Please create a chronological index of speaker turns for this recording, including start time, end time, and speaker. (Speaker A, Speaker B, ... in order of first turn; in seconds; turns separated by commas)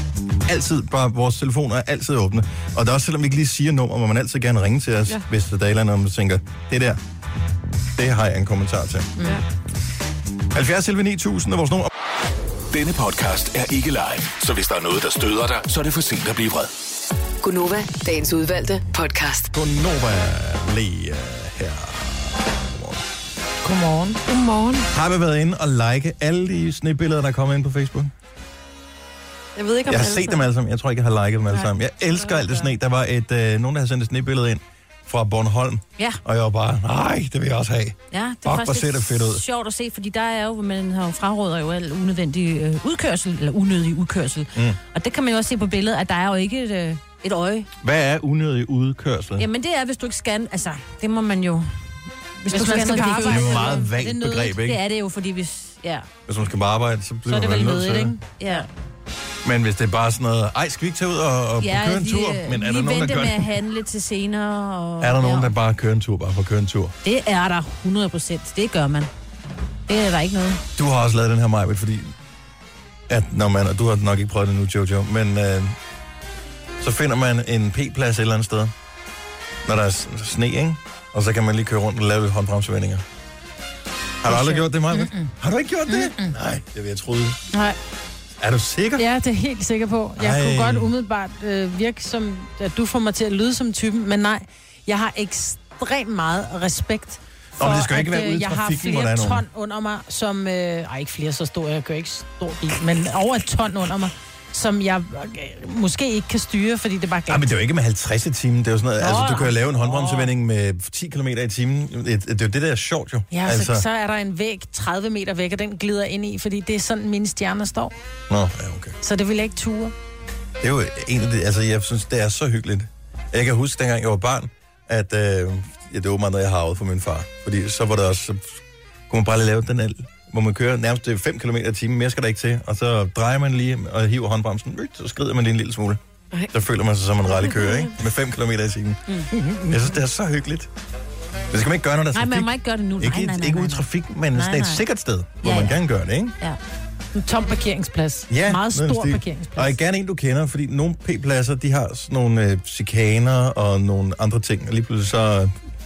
Speaker A: 0.4-7.0, Speaker A: 8.0-9.1, Speaker B: 9.2-9.4, Speaker A: 10.5-11.9, Speaker C: 12.7-16.7, Speaker D: 17.4-19.5, Speaker A: 19.5-23.0, Speaker B: 23.6-24.2, Speaker E: 24.3-24.9, Speaker A: 24.9-28.1, Speaker E: 29.6-30.4, Speaker A: 29.9-39.4, Speaker F: 32.2-32.5, Speaker F: 38.1-47.7, Speaker A: 44.5-44.8, Speaker A: 47.8-49.5, Speaker F: 49.4-51.7, Speaker F: 52.4-56.1, Speaker B: 52.5-53.9, Speaker E: 52.5-53.5, Speaker A: 53.2-54.8, Speaker A: 56.3-58.2, Speaker B: 57.3-58.7, Speaker F: 58.4-58.7, Speaker A: 59.4-63.5, Speaker F: 61.6-65.5, Speaker A: 65.0-67.0, Speaker F: 67.0-69.1, Speaker F: 69.9-70.6, Speaker A: 70.8-72.1, Speaker A: 73.1-75.8, Speaker A: 76.8-78.7, Speaker A: 79.6-83.0, Speaker A: 84.2-87.4, Speaker B: 84.2-85.3, Speaker B: 85.9-86.4, Speaker B: 87.5-87.8, Speaker A: 88.4-89.0, Speaker B: 89.0-107.5, Speaker A: 90.2-90.9, Speaker A: 97.6-99.4, Speaker A: 107.3-113.8, Speaker B: 109.0-110.3, Speaker B: 113.3-117.9, Speaker A: 118.3-119.0, Speaker B: 119.0-119.9, Speaker A: 120.6-136.0, Speaker A: 136.5-140.7, Speaker B: 139.3-139.9, Speaker A: 141.5-146.3, Speaker F: 142.1-144.8, Speaker F: 145.4-145.7, Speaker B: 147.1-149.8, Speaker A: 148.3-155.5